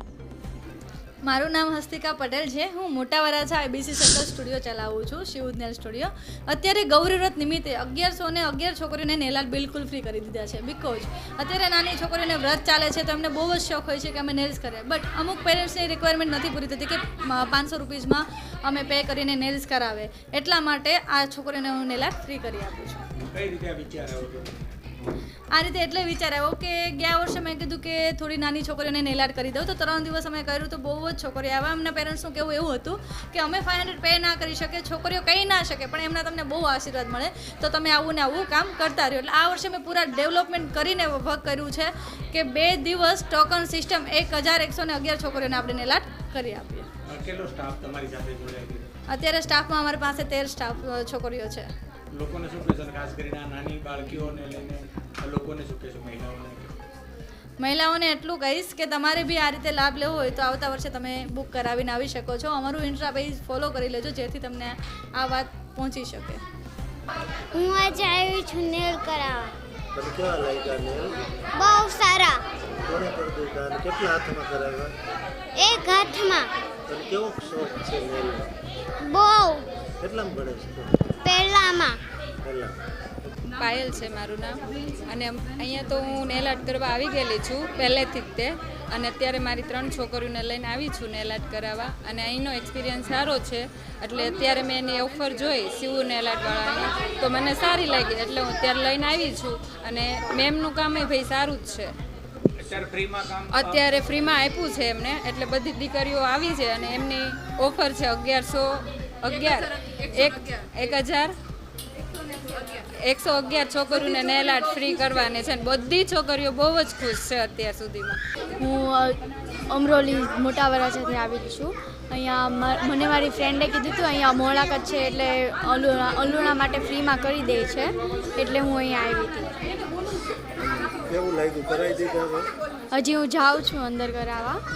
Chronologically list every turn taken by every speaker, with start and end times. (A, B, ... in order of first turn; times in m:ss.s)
0:01.3-0:23.0 A
0:23.3-0:24.8 B
0:25.6-0:46.9 A
0:47.1-0:48.9 B
0:49.1-0:51.7 A
0:52.2-0:56.8 B
0:57.6-1:06.4 A
1:07.5-1:09.5 C
1:10.0-1:11.2 D
1:11.6-1:12.4 C
1:12.8-1:14.9 D
1:15.6-1:16.5 C
1:16.9-1:18.5 D
1:19.0-1:19.7 C
1:20.0-1:21.0 D
1:21.2-1:22.0 C
1:22.4-1:22.8 D
1:23.6-1:41.9 E
1:42.6-1:43.8 B
1:43.5-1:51.3 E
1:53.0-1:58.2 E
1:58.6-1:59.2 F
1:59.7-2:09.5 F
2:10.6-2:12.5 D
2:12.9-2:14.6 F